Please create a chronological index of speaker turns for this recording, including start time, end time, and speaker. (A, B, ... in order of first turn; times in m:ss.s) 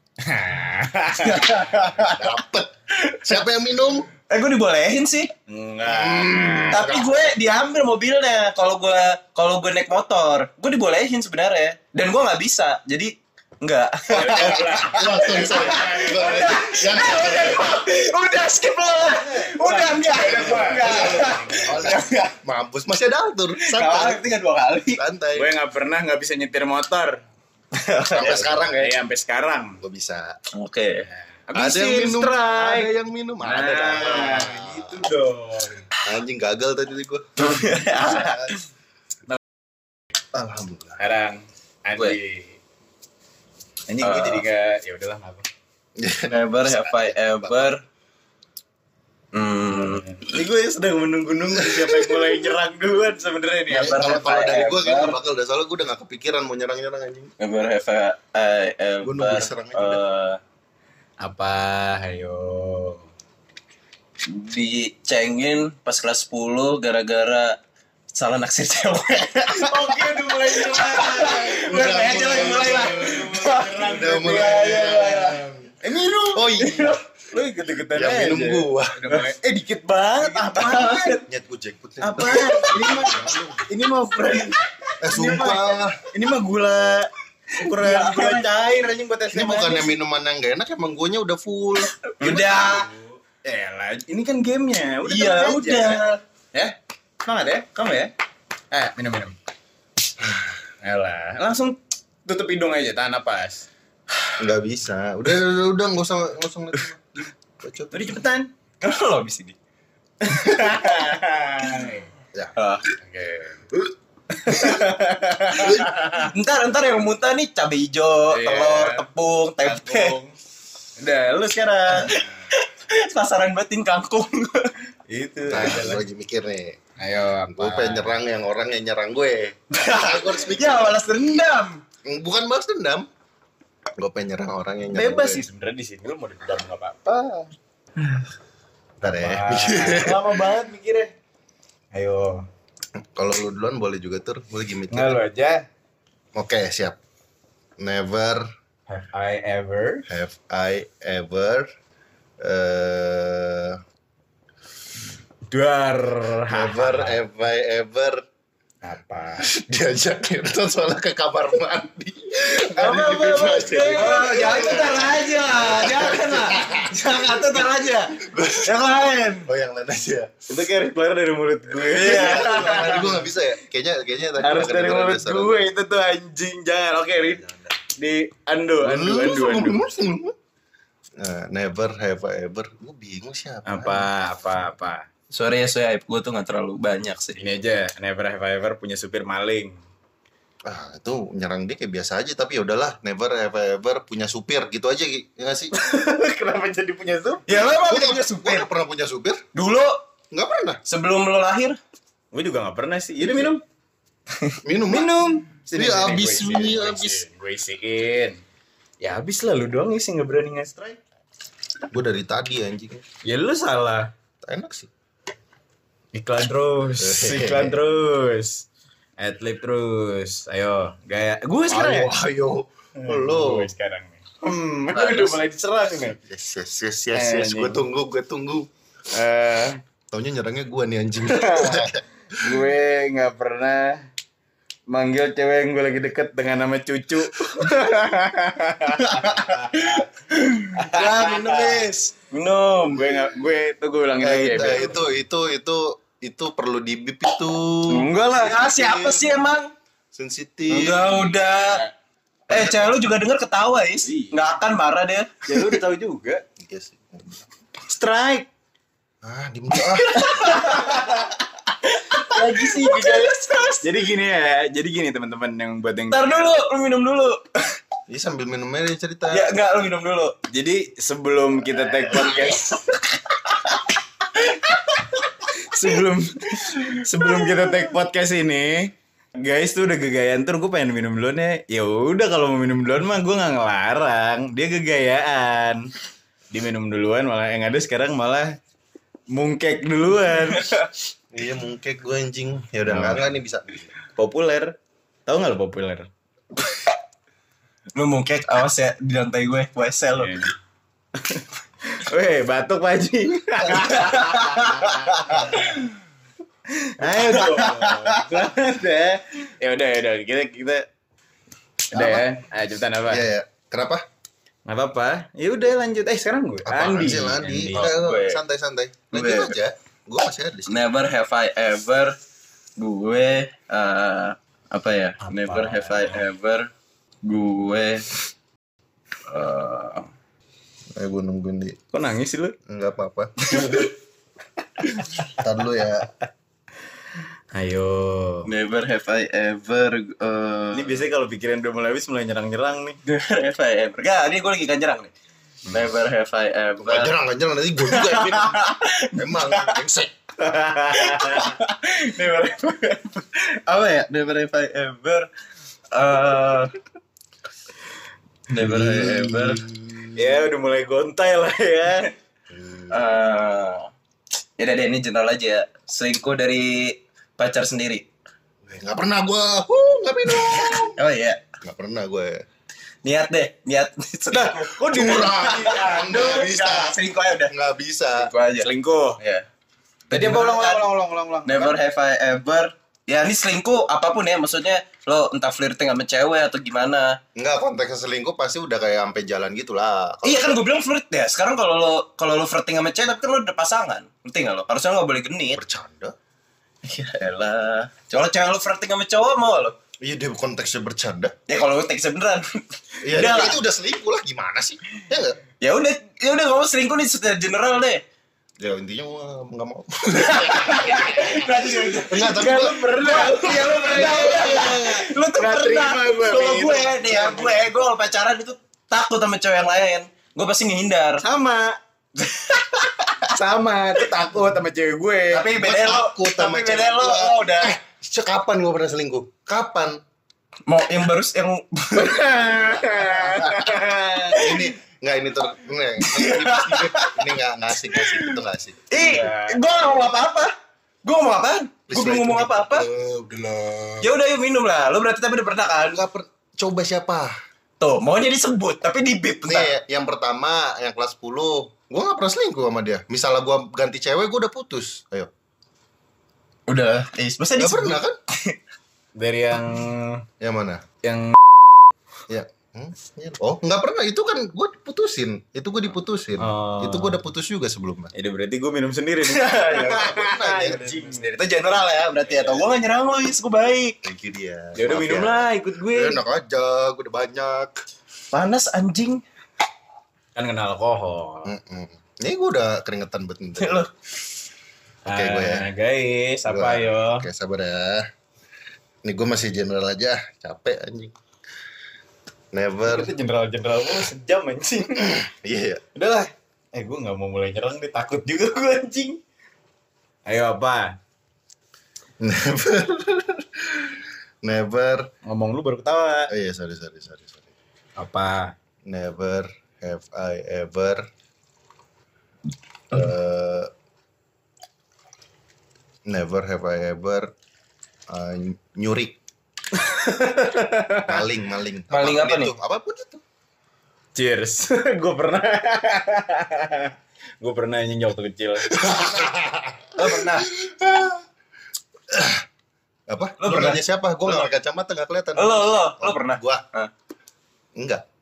0:00.2-0:01.8 A
0:01.2-0:02.3 B
0:02.0-0:02.7 C
0:02.9-0:03.4 B
0:03.2-0:04.1 C
0:04.3-0:05.3 B
0:05.5-0:06.9 A
0:05.8-0:07.2 C
0:06.7-0:22.4 B
0:14.1-0:16.8 A
0:14.3-0:17.8 C
0:19.0-0:21.9 A
0:20.2-0:24.2 C
0:23.6-0:25.0 B
0:24.9-0:25.5 C
0:25.3-0:27.2 A
0:27.8-0:28.4 B
0:28.1-0:29.0 C
0:28.2-0:29.8 A
0:29.8-0:30.4 C
0:30.5-0:31.1 B
0:31.1-0:35.9 A
0:31.6-0:35.1 C
0:36.0-0:38.6 C
0:37.4-0:38.6 B
0:40.3-0:41.0 C
0:41.0-0:42.6 A
0:43.9-0:45.4 A
0:44.0-0:44.4 B
0:46.0-0:47.7 C
0:46.3-0:47.8 B
0:49.3-0:50.1 B
0:49.7-0:54.2 A
0:51.6-0:52.5 C
0:53.7-0:55.2 B
0:53.7-0:57.3 C
0:57.4-1:00.4 B
0:59.0-1:00.0 C
1:01.2-1:03.1 A
1:04.3-1:07.6 B
1:08.1-1:15.4 B
1:09.5-1:15.1 A
1:11.5-1:15.7 C
1:15.8-1:21.2 A
1:16.3-1:17.0 C
1:17.9-1:19.0 C
1:20.2-1:21.2 B
1:21.3-1:23.7 C
1:22.0-1:29.9 A
1:25.0-1:26.0 C
1:27.6-1:28.5 B
1:29.3-1:32.3 C
1:31.9-1:32.9 B
1:32.2-1:36.0 A
1:35.1-1:36.2 B
1:36.5-1:38.1 A
1:38.7-1:39.4 A
1:40.8-1:43.7 A
1:44.4-1:48.2 C
1:47.9-1:48.5 A
1:48.8-1:49.6 B
1:50.2-1:52.1 A
1:52.6-1:52.9 B
1:53.0-1:53.7 A
1:54.3-1:56.3 A
1:55.6-1:56.0 C
1:56.0-2:00.2 B
1:58.3-1:59.1 A
1:59.6-2:00.4 A
2:01.0-2:02.3 A
2:01.9-2:04.7 B
2:05.1-2:06.0 A
2:05.5-2:06.8 C
2:07.0-2:08.2 A
2:07.5-2:11.0 C
2:09.7-2:11.8 B
2:12.0-2:13.1 C
2:14.0-2:15.5 C
2:14.9-2:17.5 A
2:19.0-2:20.2 C
2:19.0-2:21.1 A
2:21.9-2:22.5 A
2:23.0-2:25.2 C
2:24.9-2:25.7 A
2:26.4-2:27.0 C
2:27.8-2:28.5 C
2:28.9-2:30.1 A
2:30.1-2:31.7 C
2:32.4-2:33.8 C
2:35.5-2:37.2 A
2:36.5-2:38.2 C
2:38.8-2:39.5 A
2:39.4-2:47.0 C
2:42.8-2:49.5 B
2:43.7-2:47.7 A
2:48.2-2:48.8 C
2:49.4-2:50.3 C
2:50.5-2:53.2 A
2:51.8-2:53.2 B
2:51.9-2:55.6 C
2:54.4-2:59.8 A
2:58.8-3:00.4 C
3:01.2-3:04.1 C
3:03.7-3:05.1 A
3:05.3-3:07.4 B
3:07.4-3:09.8 A
3:10.6-3:15.7 C
3:15.7-3:17.4 A
3:17.5-3:18.7 B
3:17.6-3:19.4 C
3:19.6-3:20.0 B
3:20.3-3:20.8 C
3:20.9-3:21.8 B
3:22.3-3:23.6 A
3:24.6-3:25.1 C
3:24.9-3:28.4 A
3:25.7-3:27.2 C
3:29.0-3:31.0 A
3:31.9-3:33.0 C
3:33.2-3:34.1 A
3:34.4-3:34.9 C
3:36.1-3:38.7 A
3:37.0-3:37.8 C
3:39.2-3:42.1 A
3:41.7-3:43.7 C
3:43.0-3:46.2 A
3:44.9-3:45.4 B
3:46.2-3:48.7 C
3:47.1-3:47.8 A
3:49.1-3:49.8 A
3:50.1-3:52.0 C
3:51.2-3:54.0 A
3:54.9-4:00.1 A
3:59.0-4:02.6 B
4:00.8-4:01.8 A
4:02.5-4:05.0 A
4:04.2-4:09.4 C
4:07.9-4:08.6 A
4:08.3-4:09.7 B
4:10.1-4:11.2 C
4:10.7-4:11.9 B
4:12.5-4:12.8 C
4:12.5-4:15.5 B
4:14.1-4:14.4 A
4:15.4-4:16.4 A
4:16.6-4:17.4 C
4:17.9-4:18.5 A
4:19.2-4:20.6 C
4:19.9-4:24.1 B
4:20.2-4:21.3 A
4:22.2-4:23.3 A
4:23.8-4:26.5 A
4:26.1-4:27.6 B
4:28.1-4:29.5 C
4:29.3-4:30.4 B
4:30.4-4:32.9 A
4:31.9-4:35.3 B
4:35.5-4:45.9 A
4:36.7-4:37.8 B
4:46.5-4:48.6 A
4:49.3-4:50.8 A
4:51.3-4:53.9 C
4:52.9-4:53.3 A
4:54.2-4:54.7 A
4:55.3-4:56.1 A
4:58.0-5:00.5 B
5:00.2-5:00.5 A
5:01.2-5:05.8 A
5:03.8-5:05.8 B
5:06.8-5:10.9 A
5:07.1-5:08.2 B
5:11.9-5:13.3 A
5:11.9-5:12.3 C
5:13.1-5:14.0 C
5:14.7-5:17.9 A
5:16.6-5:20.8 C
5:17.7-5:18.4 B
5:19.1-5:19.6 B
5:20.7-5:22.2 B
5:22.8-5:26.7 B
5:25.2-5:26.2 A
5:27.2-5:28.1 B
5:29.3-5:30.1 B
5:31.0-5:31.8 C
5:31.9-5:32.6 A
5:32.6-5:33.3 C
5:33.5-5:33.9 B
5:33.5-5:33.9 A
5:35.4-5:36.1 C
5:37.5-5:38.5 A
5:38.5-5:41.1 B
5:40.7-5:43.0 A
5:43.0-5:45.1 B
5:45.7-5:47.2 B
5:46.8-5:50.1 C
5:47.8-5:49.8 B
5:50.4-5:51.6 A
5:50.9-5:55.3 B
5:55.9-5:56.7 B
5:58.5-6:00.0 B
5:58.6-6:00.0 C
6:00.2-6:02.1 A
6:02.5-6:03.0 C
6:02.9-6:03.9 B
6:04.6-6:08.0 B
6:08.6-6:11.0 C
6:11.0-6:11.4 B
6:11.6-6:12.4 C
6:13.0-6:17.5 B
6:14.3-6:16.3 A
6:14.9-6:18.3 C
6:18.1-6:18.7 B
6:18.6-6:19.2 A
6:19.2-6:19.5 B
6:20.1-6:20.9 B
6:20.1-6:21.8 A
6:21.4-6:27.2 B
6:27.4-6:30.6 C
6:30.2-6:35.6 B
6:35.5-6:36.1 C
6:36.8-6:39.8 B
6:40.0-6:41.3 C
6:41.5-6:43.6 B
6:43.0-6:45.4 C
6:45.6-6:48.0 B
6:48.6-6:51.3 C
6:50.2-7:01.2 B
6:52.0-6:53.2 C
6:52.2-6:57.6 A
7:01.2-7:01.8 A
7:02.2-7:03.3 B
7:03.3-7:05.5 A
7:05.3-7:07.7 B
7:05.5-7:10.0 C
7:10.7-7:12.3 B
7:12.0-7:14.5 A
7:13.0-7:19.3 C
7:14.4-7:14.7 B
7:16.0-7:17.3 B
7:17.9-7:18.4 B
7:18.9-7:20.5 B
7:18.9-7:19.6 A
7:21.0-7:22.9 B
7:21.9-7:24.1 C
7:24.0-7:26.0 B
7:25.9-7:27.3 C
7:27.8-7:29.8 B
7:29.4-7:35.3 C
7:36.7-7:38.6 B
7:37.6-7:38.2 C
7:39.2-7:40.3 A
7:40.4-7:40.8 C
7:41.0-7:41.4 A
7:42.3-7:48.1 C
7:46.4-7:47.2 A
7:48.1-7:51.4 A
7:49.3-7:50.0 B
7:49.7-7:51.3 C
7:51.3-7:54.0 B
7:52.3-7:52.7 A
7:54.0-7:57.8 C
7:54.8-7:56.2 A
7:58.3-7:59.2 B
8:00.4-8:01.5 A
8:01.4-8:03.9 C
8:03.6-8:03.9 B
8:05.0-8:07.3 A
8:05.1-8:05.7 C
8:06.5-8:08.1 C
8:09.0-8:11.2 C
8:12.5-8:13.1 C
8:12.9-8:15.2 A
8:15.0-8:15.8 C
8:16.0-8:19.2 A
8:20.3-8:21.0 A
8:22.2-8:25.1 C
8:25.2-8:26.3 A
8:26.3-8:27.5 C
8:28.0-8:28.5 A
8:28.9-8:31.1 C
8:32.9-8:33.7 C
8:36.1-8:37.3 C
8:38.1-8:39.2 C
8:39.7-8:41.2 A
8:41.1-8:43.2 C
8:41.9-8:42.5 B
8:44.2-8:49.2 A
8:48.7-8:51.2 C
8:50.0-8:50.5 B
8:52.1-8:52.4 C
8:53.1-8:56.6 C
8:53.4-8:54.5 B
8:55.4-8:56.9 B
8:57.8-8:58.0 C